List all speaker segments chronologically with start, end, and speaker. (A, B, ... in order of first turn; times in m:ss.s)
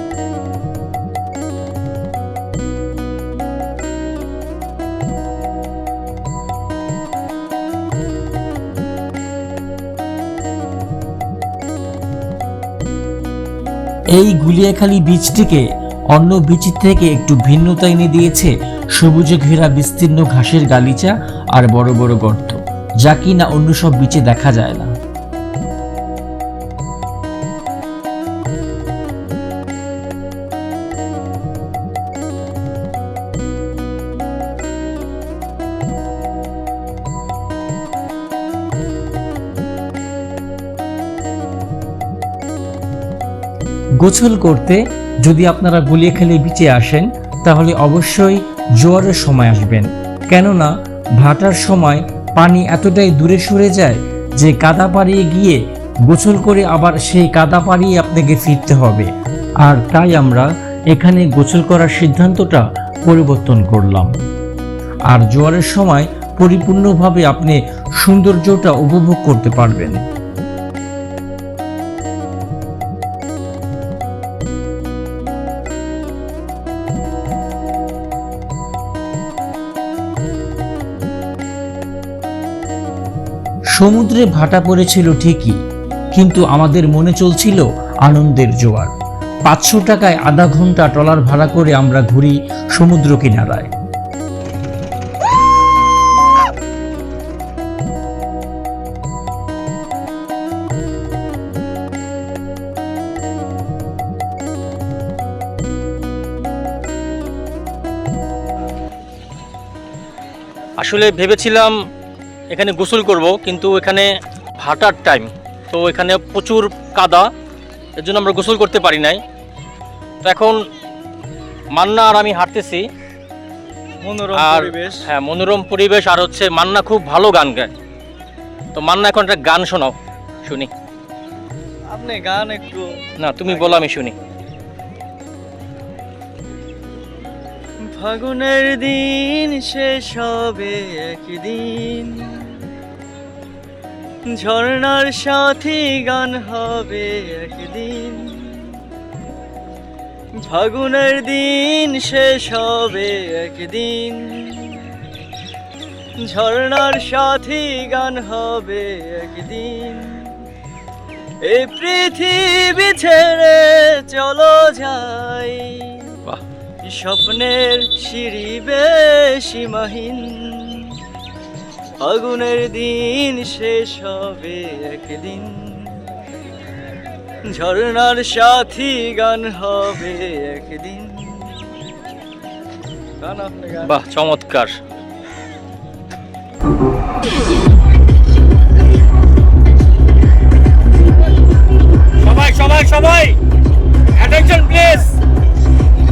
0:14.2-0:24.9 A
0:44.0-0:59.1 A
0:59.6-1:04.1 A
1:05.1-1:10.0 A
1:23.8-1:25.6 A
1:26.2-1:28.9 A
1:29.5-1:33.7 A
1:50.8-1:51.7 B
1:52.5-1:54.1 B
1:54.6-1:57.3 B
1:58.0-1:59.2 B
2:00.2-2:00.6 B
2:01.7-2:02.8 B
2:04.0-2:05.1 C
2:04.3-2:07.7 B
2:08.8-2:09.9 B
2:10.4-2:10.7 B
2:11.9-2:12.9 C
2:13.2-2:14.2 B
2:13.6-2:13.8 C
2:17.9-2:22.7 C
2:24.3-2:28.8 C
2:30.4-2:35.0 C
2:36.2-2:40.4 C
2:41.4-2:46.2 C
2:46.8-2:51.0 C
2:52.0-2:55.9 C
2:57.5-3:01.7 C
3:03.2-3:04.0 C
3:03.9-3:04.8 B
3:12.2-3:13.4 B
3:14.2-3:15.1 B